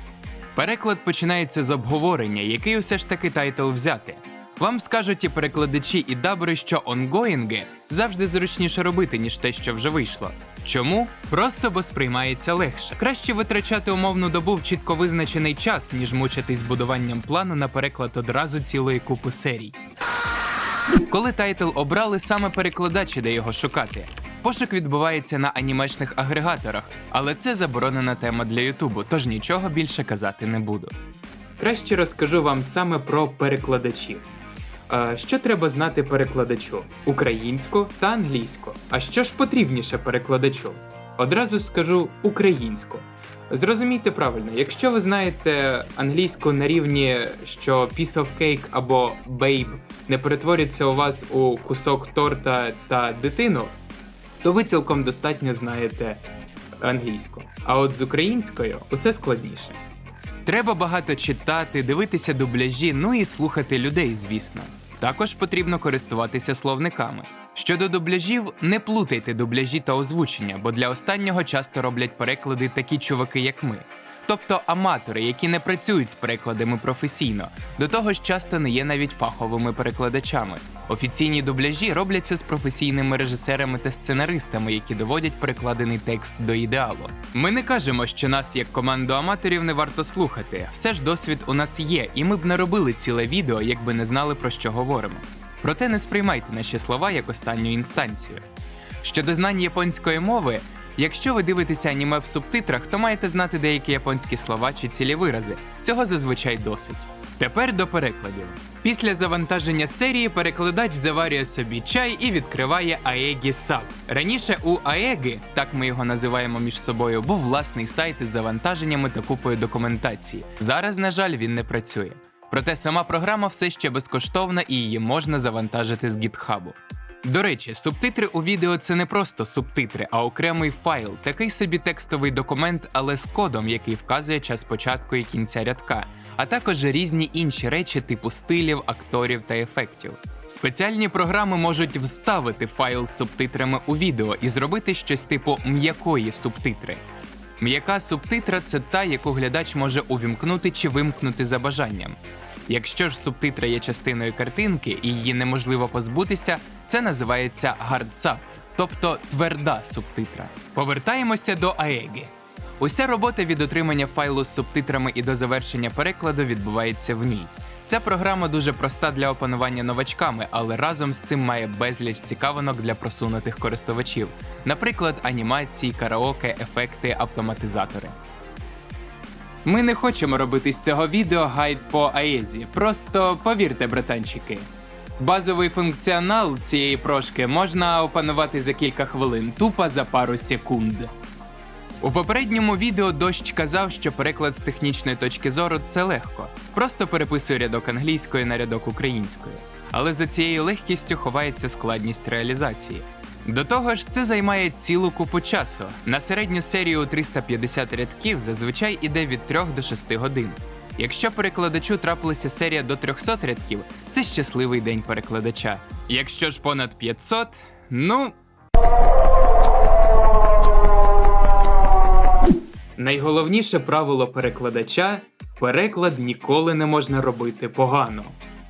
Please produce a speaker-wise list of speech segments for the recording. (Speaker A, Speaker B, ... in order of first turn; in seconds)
Speaker A: 0.5-19.8, 21.1-30.9, 31.6-34.3, 34.9-53.7, 54.4-56.2, 56.8-59.8, 60.4-98.4, 99.0-147.0, 147.6-152.2, 152.7-178.1, 179.6-184.7, 185.2-191.1, 192.0-218.3, 223.0-228.4